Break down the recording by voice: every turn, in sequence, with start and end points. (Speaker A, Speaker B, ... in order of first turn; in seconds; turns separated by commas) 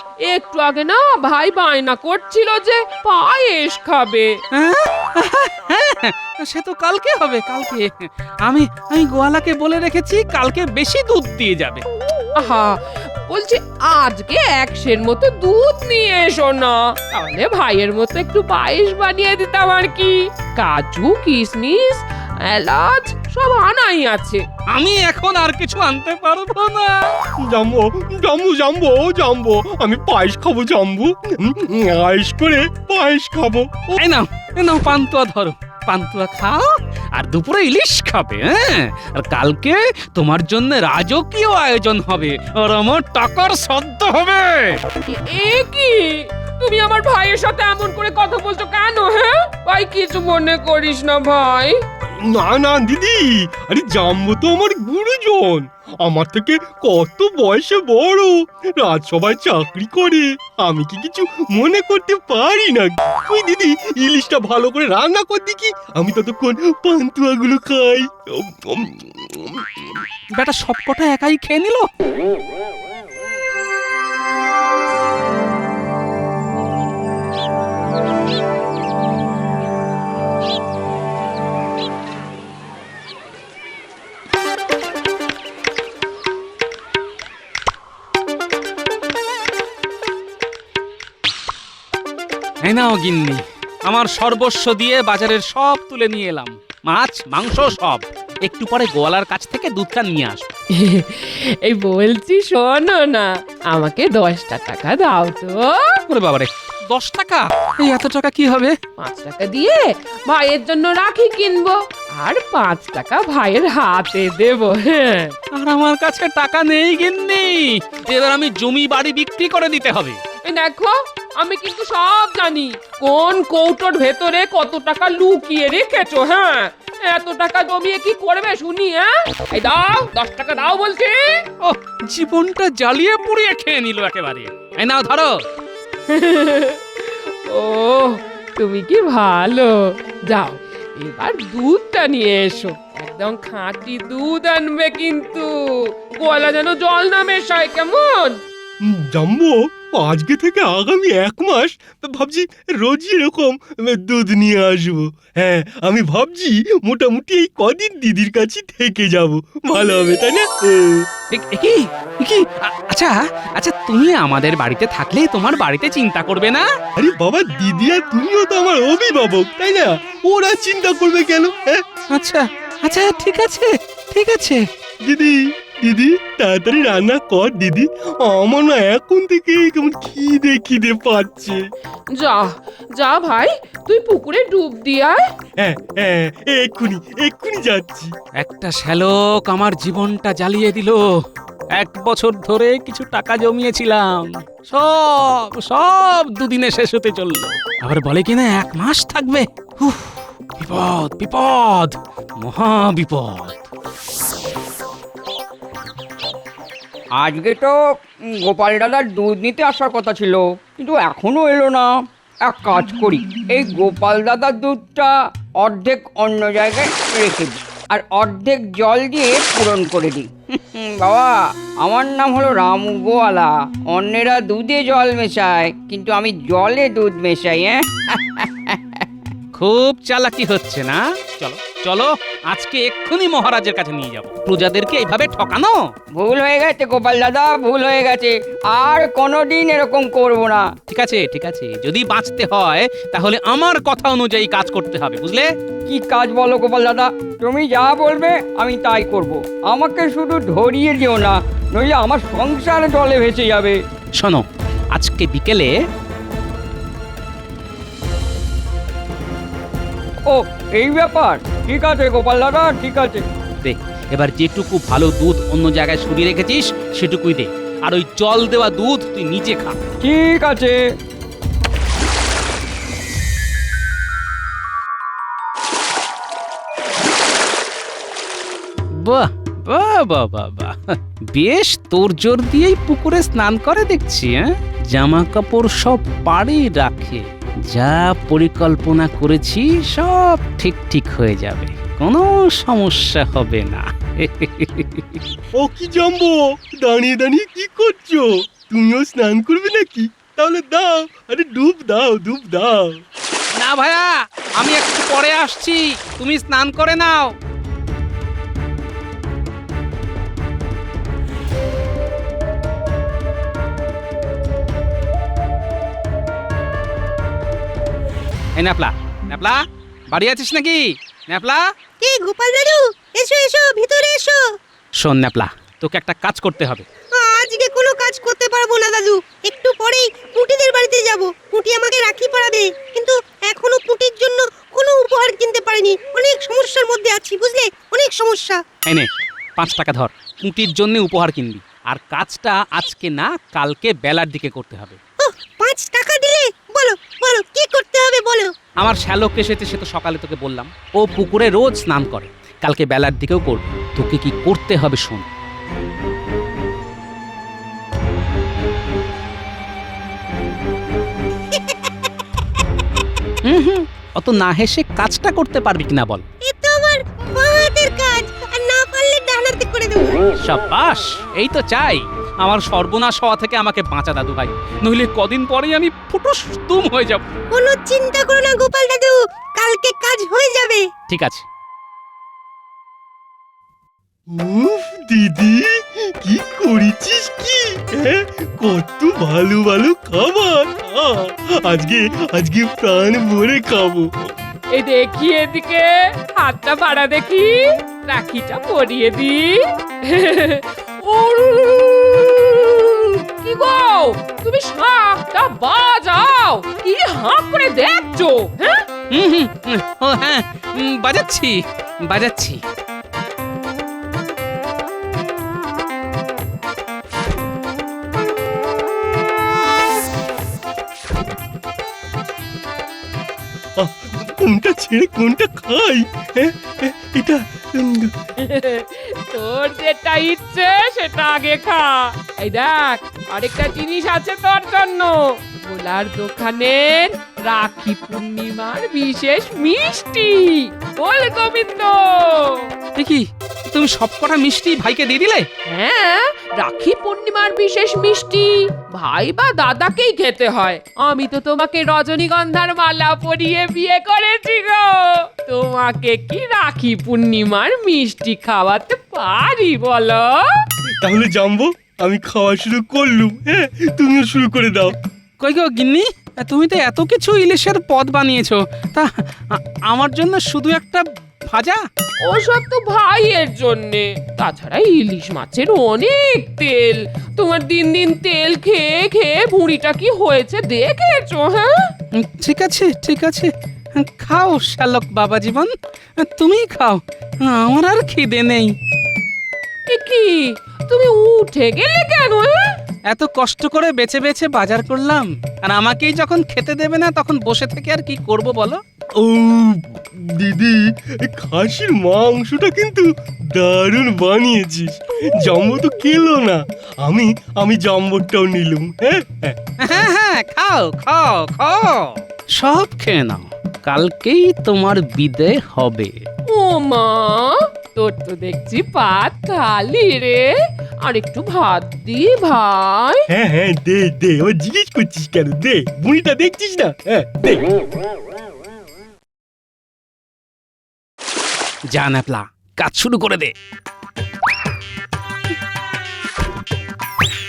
Speaker A: 0.3-4.3, Speaker B: 4.5-11.8, Speaker A: 12.3-24.4, Speaker B: 24.7-27.1, Speaker C: 27.5-33.9, Speaker B: 34.0-44.8, Speaker A: 45.1-51.8, Speaker C: 52.3-69.8, Speaker B: 70.3-71.8, Speaker B: 92.6-100.5, Speaker A: 100.7-106.0, Speaker B: 106.1-108.7, Speaker A: 109.0-115.3, Speaker B: 115.5-120.2, Speaker A: 120.5-131.4, Speaker B: 131.6-135.4, Speaker A: 136.1-148.4, Speaker C: 149.1-161.0, Speaker B: 161.3-166.7, Speaker C: 167.0-171.8, Speaker B: 172.1-174.6, Speaker C: 175.1-181.6, Speaker A: 182.1-185.2, Speaker C: 185.6-188.1, Speaker B: 188.4-191.0, Speaker B: 191.8-203.6, Speaker D: 207.2-211.9, Speaker D: 212.4-229.1, Speaker B: 229.6-235.8, Speaker D: 236.1-240.7, Speaker B: 240.9-245.5, Speaker D: 245.9-253.8, Speaker B: 254.2-255.7, Speaker D: 260.2-263.2, Speaker B: 263.6-269.8, Speaker D: 270.0-270.9, Speaker B: 279.0-280.8, Speaker B: 281.3-295.2, Speaker C: 295.6-302.9, Speaker B: 303.6-307.3, Speaker B: 318.6-321.6, Speaker E: 322.0-324.4, Speaker B: 325.0-326.8, Speaker E: 327.1-338.6, Speaker B: 339.6-345.0, Speaker E: 345.2-348.5, Speaker B: 348.8-355.3, Speaker B: 363.4-366.2, Speaker E: 366.4-370.2, Speaker B: 370.4-377.2, Speaker E: 377.5-380.8, Speaker B: 381.1-381.4, Speaker C: 384.3-394.1, Speaker A: 394.7-408.9, Speaker B: 409.1-412.6, Speaker C: 423.8-428.1, Speaker A: 428.4-442.7, Speaker B: 442.9-445.4, Speaker A: 445.7-460.4, Speaker C: 461.0-464.9, Speaker B: 465.4-471.8, Speaker A: 472.2-481.9, Speaker B: 482.2-488.7, Speaker A: 489.9-492.6, Speaker B: 493.1-498.8, Speaker C: 499.2-509.5, Speaker B: 509.8-516.1, Speaker A: 516.5-520.5, Speaker A: 521.0-523.2, Speaker C: 523.3-527.7, Speaker B: 531.9-533.5